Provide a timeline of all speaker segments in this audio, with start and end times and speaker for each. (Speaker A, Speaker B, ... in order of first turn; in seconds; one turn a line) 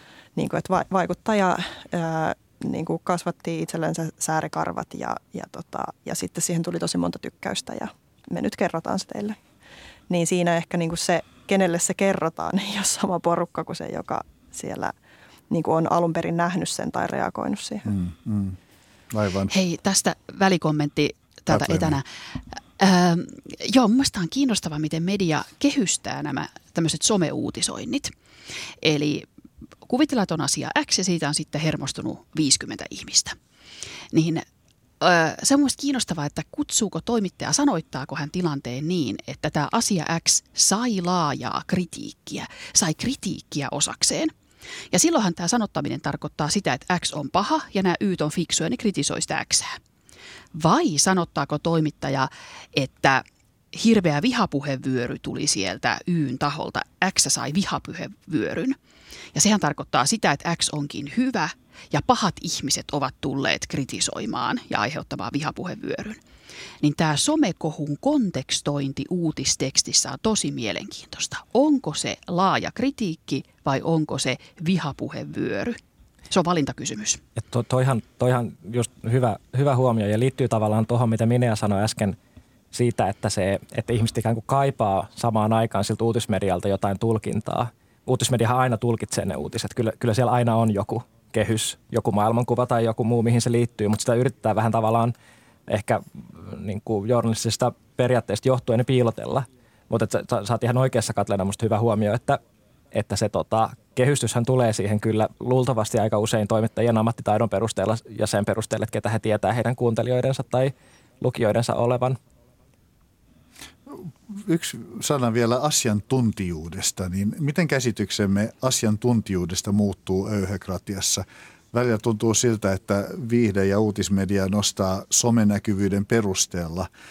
Speaker A: 0.4-9.4
Speaker A: 10.1-14.9
Speaker A: 15.5-17.9
Speaker B: 17.9-18.6
Speaker B: 19.1-19.5
Speaker C: 19.5-22.1
Speaker B: 21.5-22.0
Speaker C: 22.8-28.1
Speaker C: 28.8-29.3
Speaker C: 29.9-33.4
Speaker C: 34.1-34.5
Speaker C: 35.0-44.3
Speaker C: 44.9-49.8
Speaker C: 50.5-58.8
Speaker C: 59.3-66.2
Speaker C: 66.8-75.8
Speaker C: 76.3-77.2
Speaker D: 77.4-82.2
Speaker D: 82.7-95.1
Speaker D: 95.7-102.4
Speaker D: 102.9-112.2
Speaker B: 113.9-126.9